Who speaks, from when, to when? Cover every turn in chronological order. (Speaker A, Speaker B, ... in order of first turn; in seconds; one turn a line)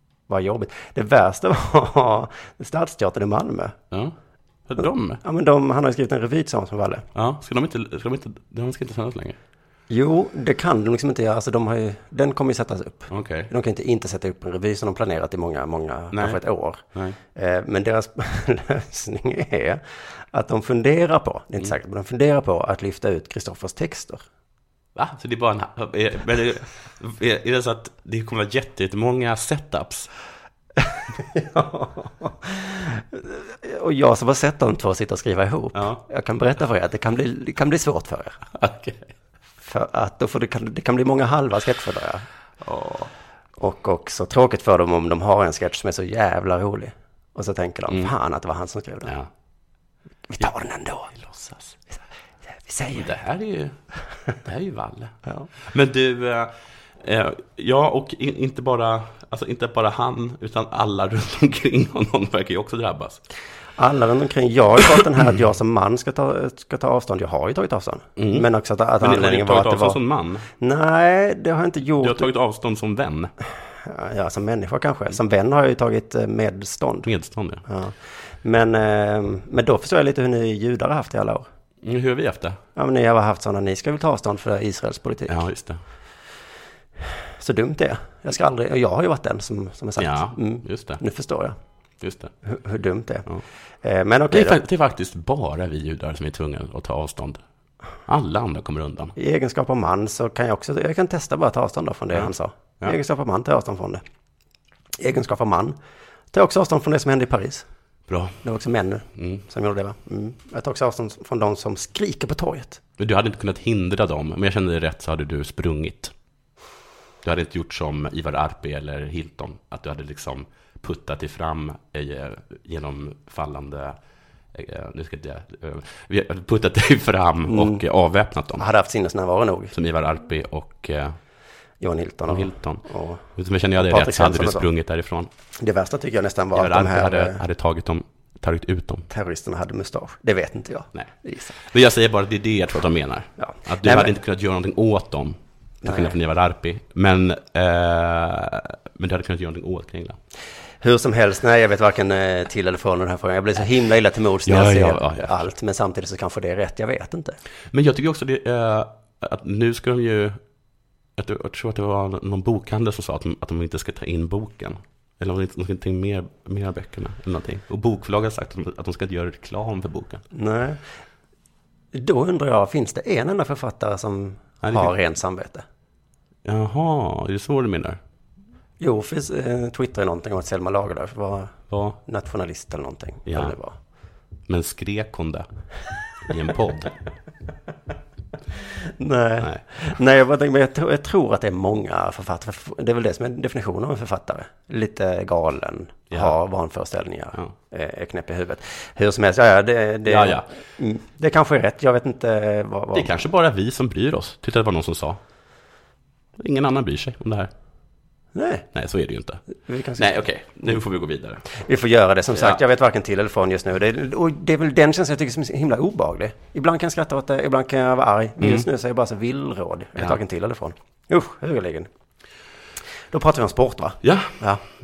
Speaker A: 0.3-3.8
Speaker B: 4.7-5.2
Speaker A: 4.8-7.0
Speaker B: 7.1-9.4
Speaker A: 9.9-24.2
Speaker B: 13.1-13.5
Speaker B: 16.1-16.4
Speaker B: 25.0-30.1
Speaker A: 31.2-38.4
Speaker B: 35.8-36.0
Speaker B: 38.5-39.1
Speaker A: 39.6-42.2
Speaker B: 42.6-43.1
Speaker A: 43.6-49.1
Speaker A: 50.3-51.1
Speaker B: 51.1-51.8
Speaker A: 52.6-53.1
Speaker B: 52.9-53.8
Speaker B: 54.4-63.2
Speaker A: 63.8-70.0
Speaker B: 68.2-68.5
Speaker B: 69.0-70.5
Speaker A: 70.5-72.3
Speaker B: 72.0-73.3
Speaker A: 73.8-77.1
Speaker B: 77.0-77.6
Speaker A: 77.7-81.5
Speaker B: 81.8-82.6
Speaker A: 82.8-85.4
Speaker B: 85.3-85.8
Speaker A: 87.4-91.5
Speaker B: 90.0-91.0
Speaker B: 92.0-92.3
Speaker A: 92.4-93.3
Speaker A: 93.8-94.6
Speaker B: 94.3-97.4
Speaker B: 98.0-99.1
Speaker A: 99.2-104.0
Speaker A: 105.0-105.8
Speaker A: 106.3-107.7
Speaker B: 108.1-108.4
Speaker A: 108.4-112.8
Speaker B: 113.0-116.1
Speaker B: 117.2-124.0
Speaker B: 124.5-128.7
Speaker A: 127.5-127.8
Speaker A: 128.6-129.7
Speaker B: 129.7-131.2
Speaker A: 131.8-134.7
Speaker B: 132.3-135.3
Speaker A: 135.6-137.4
Speaker B: 136.5-139.1
Speaker A: 139.1-141.6
Speaker B: 140.9-150.2
Speaker A: 143.4-144.1
Speaker A: 145.8-146.1
Speaker A: 150.8-157.4
Speaker B: 154.5-155.4
Speaker B: 157.7-160.4
Speaker B: 161.2-170.2
Speaker A: 170.3-170.8
Speaker A: 171.9-175.6
Speaker B: 174.6-174.9
Speaker B: 176.4-178.0
Speaker A: 178.8-183.8
Speaker B: 181.7-182.0
Speaker B: 183.3-183.6
Speaker B: 184.5-185.5
Speaker B: 186.2-186.9
Speaker A: 188.8-203.1
Speaker B: 200.1-200.5
Speaker B: 202.9-205.2
Speaker B: 206.4-207.5
Speaker A: 208.3-208.7
Speaker B: 208.7-209.4
Speaker A: 209.6-210.8
Speaker B: 210.0-211.4
Speaker A: 211.5-221.9
Speaker B: 218.4-218.7
Speaker A: 223.1-224.6
Speaker B: 224.0-224.4